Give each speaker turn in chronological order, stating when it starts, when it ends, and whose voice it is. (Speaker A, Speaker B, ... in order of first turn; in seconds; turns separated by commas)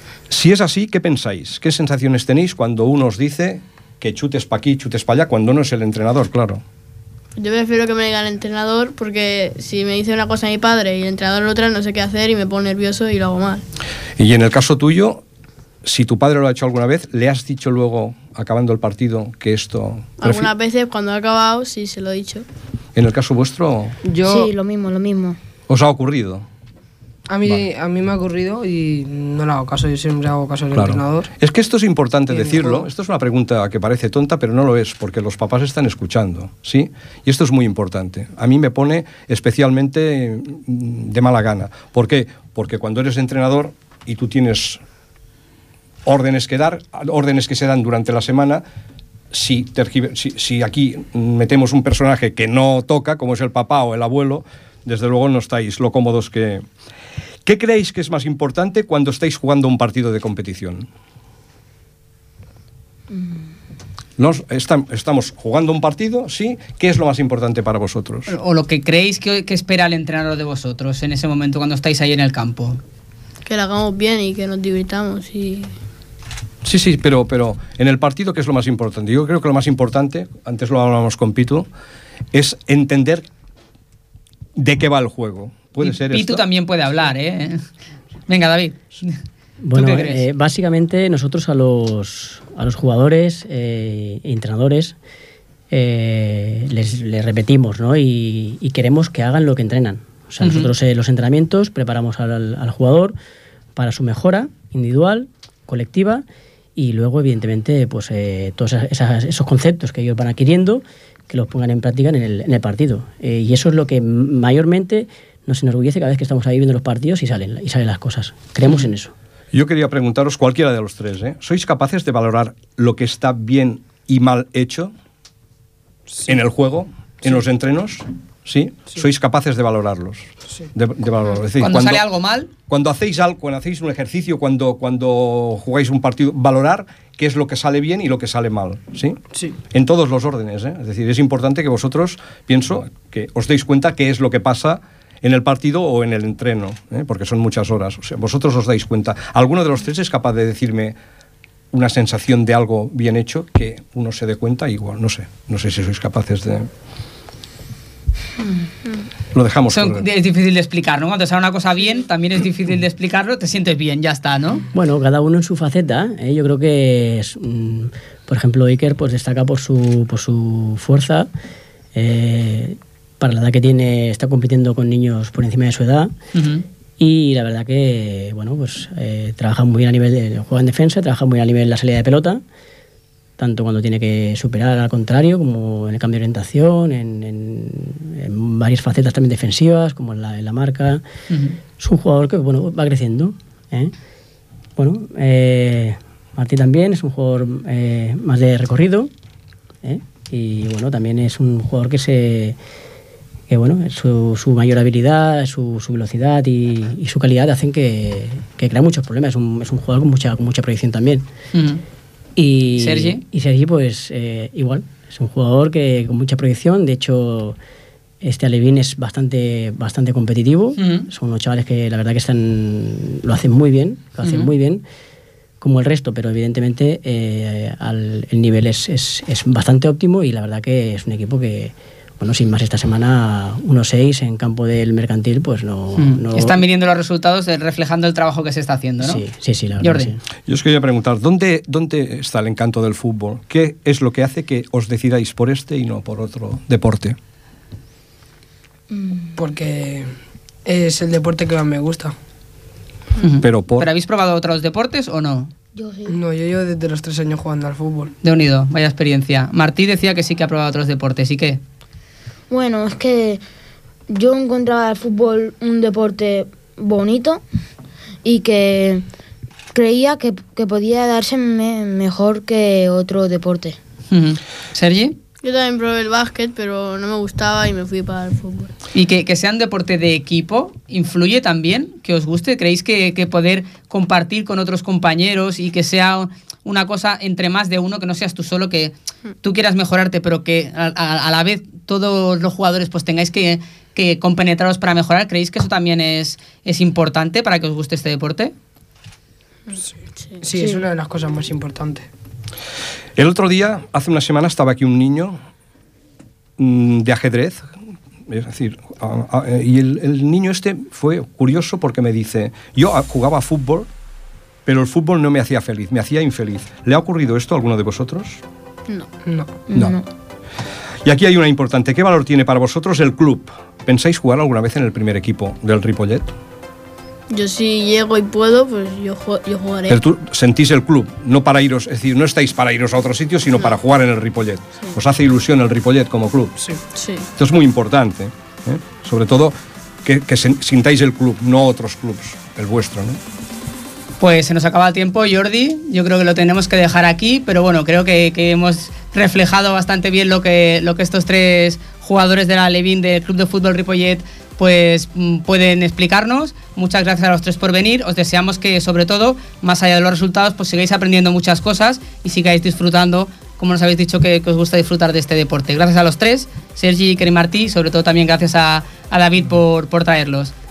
Speaker A: 0.3-6.6, Speaker B: 7.4-13.6, Speaker A: 14.2-15.2, Speaker A: 15.8-20.5, Speaker B: 20.2-22.4, Speaker A: 22.9-23.9, Speaker C: 24.0-24.5, Speaker D: 24.2-25.4, Speaker A: 25.7-26.4, Speaker C: 27.3-31.3, Speaker A: 27.4-27.7, Speaker A: 30.7-44.8, Speaker C: 32.3-32.9, Speaker A: 46.0-48.6, Speaker A: 49.3-56.6, Speaker A: 57.4-60.9, Speaker A: 64.2-68.3, Speaker E: 68.3-72.8, Speaker B: 73.4-75.8, Speaker A: 76.6-81.7, Speaker A: 82.3-83.3, Speaker A: 84.5-86.5, Speaker E: 85.8-87.6, Speaker E: 88.3-89.2, Speaker F: 89.6-95.0, Speaker E: 89.7-90.2, Speaker F: 95.7-103.2, Speaker E: 100.4-100.7, Speaker F: 103.8-106.2, Speaker F: 106.8-119.1, Speaker A: 119.5-124.9, Speaker A: 126.2-132.0, Speaker E: 131.6-132.5, Speaker A: 132.6-139.2, Speaker A: 139.7-150.9, Speaker A: 151.7-156.7, Speaker A: 159.3-160.1, Speaker E: 159.7-164.6, Speaker F: 164.7-171.3, Speaker F: 171.9-176.1, Speaker E: 176.3-176.6, Speaker F: 177.0-182.4, Speaker F: 183.4-191.0, Speaker F: 191.8-193.9, Speaker F: 194.8-199.1, Speaker F: 199.8-202.6, Speaker F: 203.5-211.2, Speaker E: 211.5-211.8, Speaker F: 212.4-217.6, Speaker E: 212.8-213.2, Speaker F: 218.2-224.8, Speaker E: 220.8-221.1, Speaker E: 224.2-224.5, Speaker F: 225.6-236.6, Speaker E: 235.9-239.2, Speaker F: 239.0-240.2, Speaker E: 239.8-240.1, Speaker A: 240.5-247.2, Speaker D: 248.9-249.4, Speaker C: 249.3-252.1, Speaker E: 253.2-255.5, Speaker A: 253.4-253.9, Speaker D: 255.7-256.1, Speaker C: 256.1-258.1, Speaker E: 258.2-261.6, Speaker D: 262.5-263.4, Speaker D: 264.1-267.4, Speaker D: 268.2-269.0, Speaker D: 269.7-273.8, Speaker E: 274.1-275.1, Speaker B: 275.4-278.7, Speaker E: 278.9-298.5, Speaker C: 299.8-302.1, Speaker D: 300.5-300.8, Speaker A: 303.1-305.4, Speaker A: 306.6-307.7, Speaker A: 308.3-313.9, Speaker A: 314.6-318.4, Speaker C: 319.2-319.6, Speaker D: 319.7-320.0, Speaker A: 321.0-326.3, Speaker B: 327.3-330.0, Speaker A: 329.9-336.5, Speaker B: 336.9-337.3, Speaker A: 337.4-343.2, Speaker E: 344.2-370.5